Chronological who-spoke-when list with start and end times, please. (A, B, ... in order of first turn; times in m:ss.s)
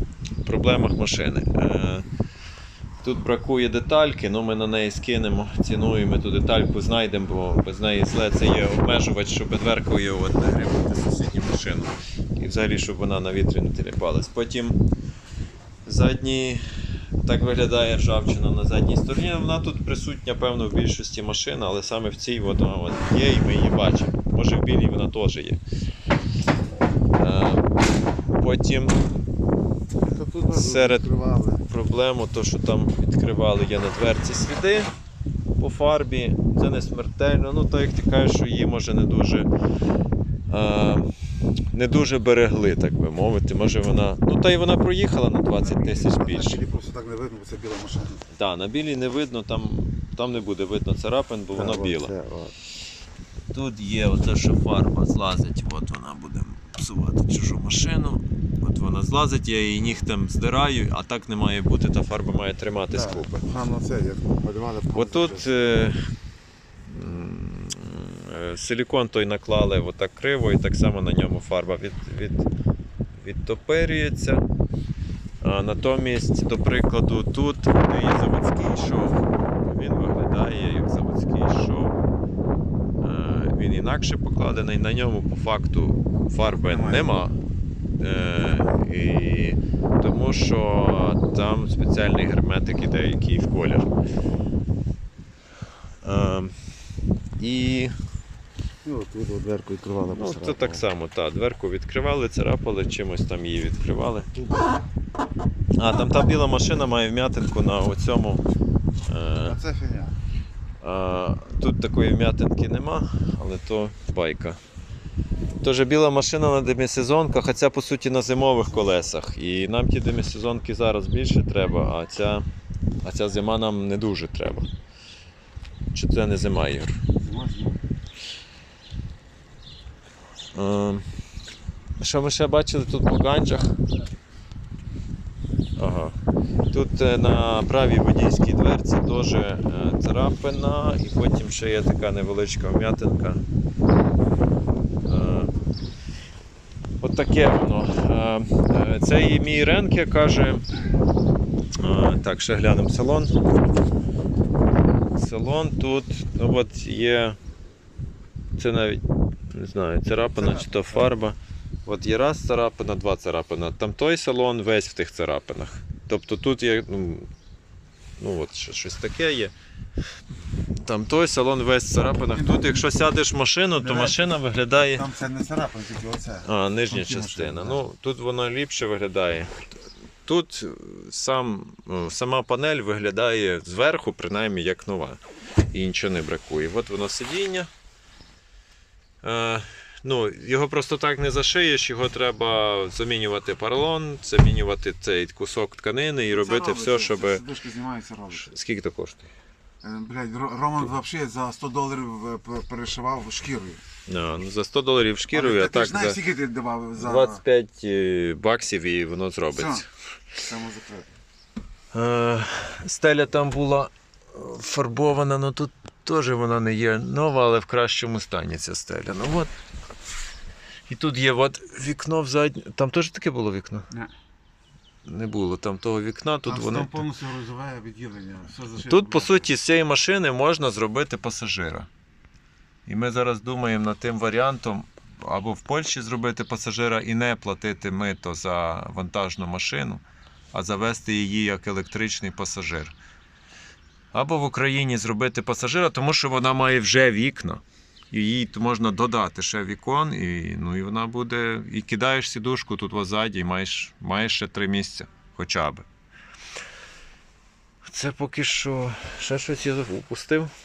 0:00.4-0:02.0 A
0:03.0-0:14.8 A
0:15.8-0:16.6 A
0:17.2-0:25.6 A
0:27.2-0:29.0 A
0:30.0-0:31.6 B
0:30.5-0:31.1 A
0:31.7-0:34.9 A
0:35.6-0:39.5 A
0:40.5-0:41.1 A
0:41.7-0:46.6 A
0:45.6-0:48.2 B
0:48.3-0:52.1 A
0:51.5-0:52.5 B
0:53.5-1:03.3 A
1:02.9-1:05.6 B
1:04.9-1:06.0 A
1:06.8-1:12.5 A
1:13.1-1:14.4 A
1:15.4-1:22.0 A
1:23.0-1:27.4 A
1:26.5-1:27.2 B
1:28.0-1:33.9 A
1:28.4-1:28.8 B
1:36.0-1:36.6 A
1:37.4-1:37.9 A
1:38.8-1:40.9 B
1:40.1-1:44.3 A
1:45.8-1:48.4 A
1:49.1-1:49.6 A
1:49.4-1:50.2 B
1:50.8-1:54.6 A
1:55.6-2:02.4 A
2:03.0-2:04.7 A
2:05.9-2:07.0 A
2:07.2-2:07.8 B
2:10.5-2:11.0 A
2:12.0-2:13.8 A
2:15.8-2:16.1 A
2:16.7-2:23.4 A
2:25.0-2:25.5 A
2:27.0-2:30.6 A
2:31.8-2:33.3 A
2:35.2-2:37.4 A
2:38.6-2:47.3 A
2:40.4-2:41.1 B
2:48.2-2:49.5 A
2:50.8-2:55.1 A
2:52.3-2:52.9 B
2:53.7-2:57.8 B
2:56.4-2:59.7 A
3:00.2-3:07.7 A
3:09.2-3:17.4 A
3:16.3-3:18.5 B
3:18.3-3:19.3 A
3:19.8-3:23.8 B
3:24.1-3:26.2 A
3:25.3-3:27.4 B
3:27.0-3:29.9 A
3:29.5-3:29.9 B
3:30.4-3:31.1 B
3:31.9-3:39.5 A
3:40.9-3:43.9 A
3:45.0-3:47.1 A
3:46.4-3:49.5 B
3:48.8-3:51.9 A
3:52.9-4:03.0 A
4:04.1-4:15.8 A
4:17.8-4:20.5 A